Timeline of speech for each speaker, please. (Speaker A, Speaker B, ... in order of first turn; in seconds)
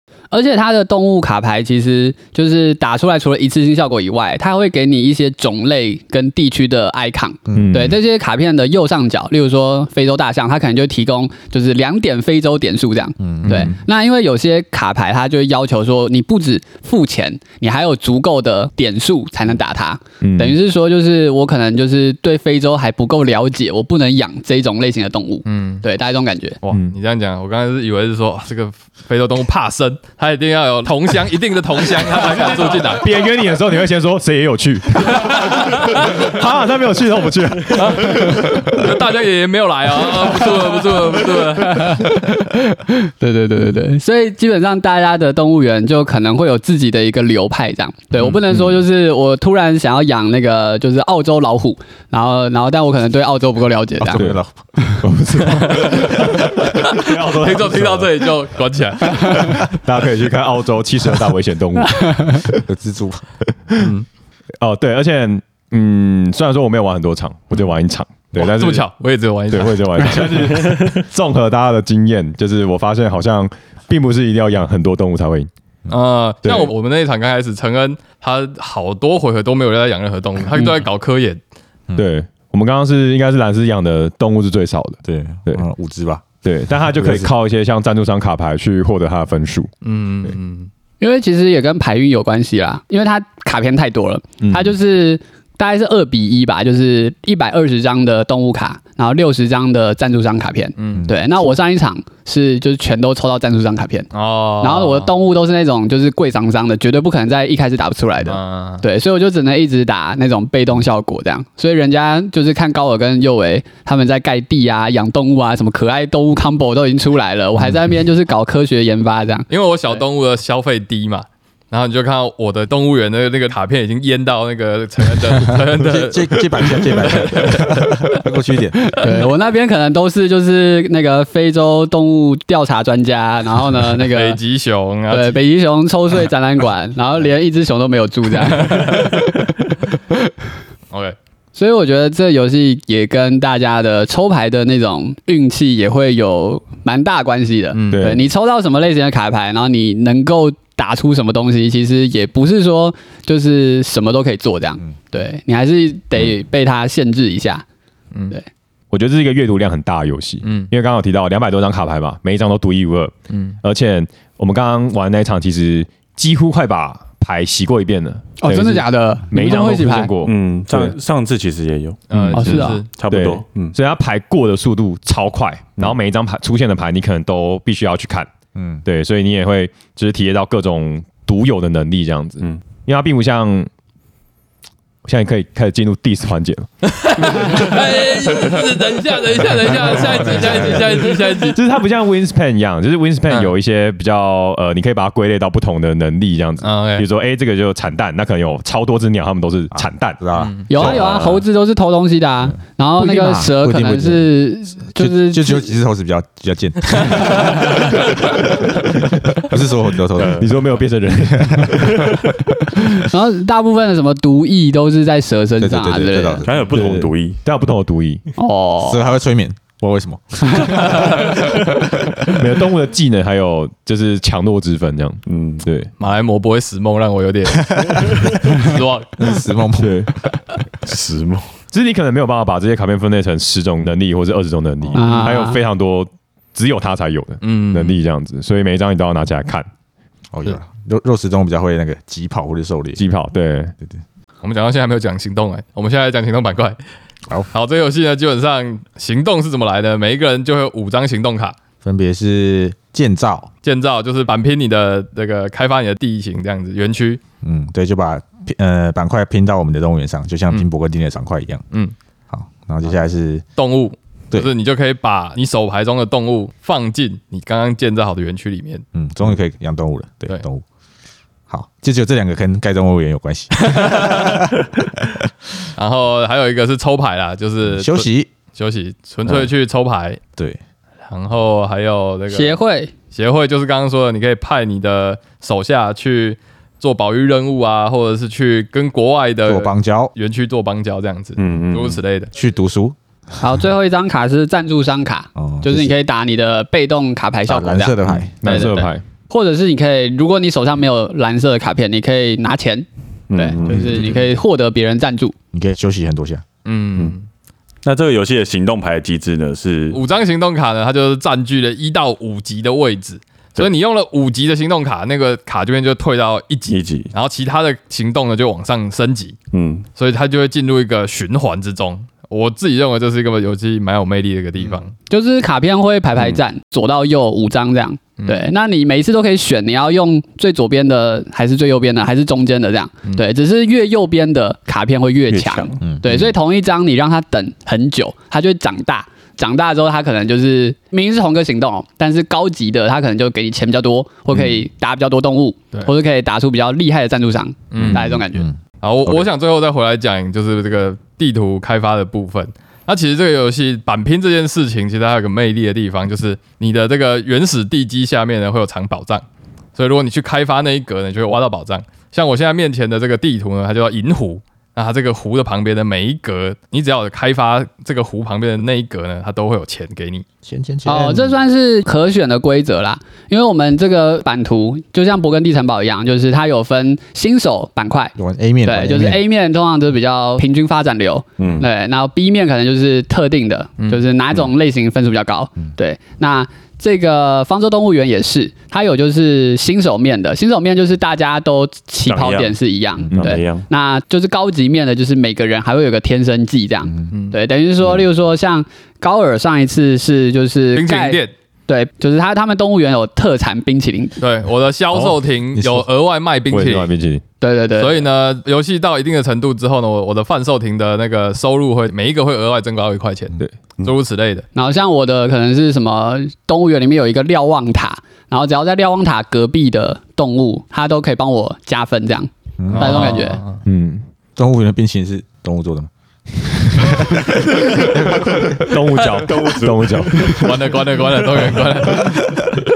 Speaker A: 0.3-26.6, 41.6-54.3, 59.2-59.5, 91.0-104.1, 104.6-119.5, 128.8-134.4, 135.1-139.5, 141.5-157.6, 168.4-170.1, 172.3-172.8, 200.7-205.7, 207.3-207.5, 212.9-216.4, 218.4-219.0, 234.9-235.6, 282.3-282.9, 293.4-305.4, 325.1-348.5, 370.8-404.2, 407.4-408.0, 414.5-423.4
Speaker B: 7.5-7.9, 13.2-13.7, 54.0-54.5, 62.6-63.2, 85.0-86.2, 86.9-87.3, 100.9-101.3, 125.5-128.9, 178.5-178.8, 189.9-190.9, 199.7-201.0, 203.0-204.3, 204.9-207.9, 209.4-210.5, 211.3-211.8, 215.6-216.7, 218.8-221.1, 227.8-228.2, 229.2-230.1, 240.3-243.0, 251.8-253.5, 257.4-261.6, 262.3-263.4, 268.9-270.6, 271.5-275.1, 277.6-278.3, 289.4-290.1, 292.3-292.9, 295.4-295.9, 297.5-298.7, 305.5-306.4, 335.8-336.3, 347.8-348.6, 370.4-371.4, 378.1-379.2, 405.6-405.8, 422.6-423.1, 424.4-428.6
Speaker C: 7.5-8.0, 13.4-13.7, 20.2-20.6, 32.2-38.9, 48.2-48.5, 55.0-58.3, 59.1-62.6, 64.6-68.8, 69.5-75.5, 76.4-76.7, 82.0-85.6, 86.4-89.7, 94.4-94.7, 147.9-148.2, 158.9-170.9, 172.3-178.3, 178.8-183.7, 185.0-186.7, 187.3-187.6, 191.5-200.2, 200.7-201.4, 210.2-213.0, 216.7-218.2, 222.2-225.9, 229.8-230.1, 231.7-239.7, 243.0-243.7, 298.4-299.0, 406.5-407.2, 423.6-424.0, 427.8-430.7
Speaker D: 25.4-25.8, 26.6-33.1, 35.2-36.0, 37.7-42.1, 55.5-59.7, 68.3-70.5, 75.9-81.4, 89.8-90.7, 100.8-101.1, 104.1-105.1, 108.2-108.8, 119.5-128.2, 133.9-135.4, 138.6-139.2, 140.9-141.2, 147.7-148.1, 160.4-160.7, 163.3-163.6, 172.1-172.9, 186.9-191.6, 196.6-197.1, 200.3-200.7, 220.8-221.4, 226.0-229.4, 237.4-238.0, 244.4-246.8, 247.5-251.5, 253.6-257.2, 263.6-268.8, 273.6-274.5, 275.7-280.2, 281.1-282.6, 283.1-292.3, 306.6-307.2, 309.9-319.4, 319.9-324.9, 347.7-348.1, 348.8-370.2, 397.1-397.4, 400.7-401.3, 404.2-406.9, 407.8-414.5, 422.7-423.6, 430.2-432.3
Speaker E: 170.2-173.7, 210.2-210.5, 211.8-212.2, 216.4-217.4, 225.3-225.6, 230.8-231.5, 291.4-292.0, 303.3-304.0, 307.8-310.0, 316.7-317.1, 319.5-319.9, 335.3-335.8, 347.8-348.0, 381.4-381.7, 392.1-392.6, 393.1-393.7, 429.0-430.4